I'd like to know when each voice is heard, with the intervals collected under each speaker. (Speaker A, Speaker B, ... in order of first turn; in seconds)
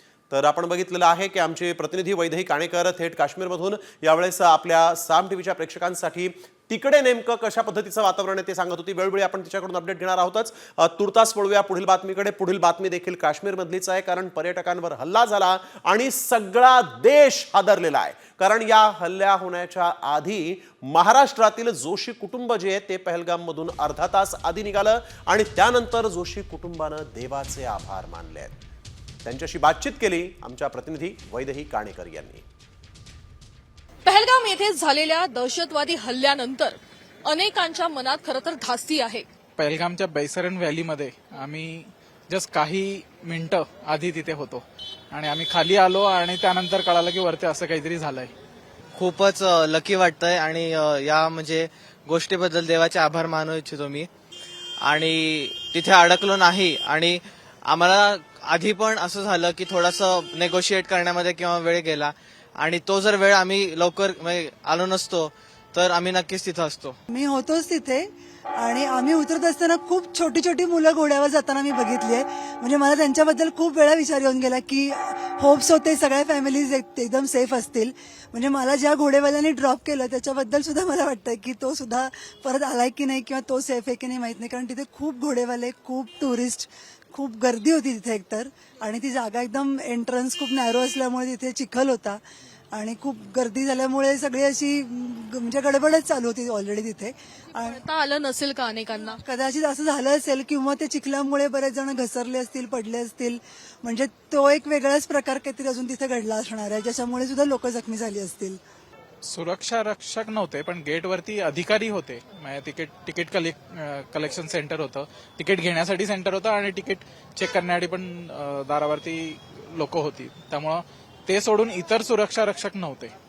Speaker A: 0.3-28.6, 29.2-32.4
Speaker B: 34.0-39.3, 97.6-99.2
Speaker C: 39.6-48.3, 109.2-123.1
Speaker D: 48.9-54.1, 54.8-67.0
Speaker E: 67.1-68.1, 68.6-92.2, 92.7-97.8, 99.0-108.6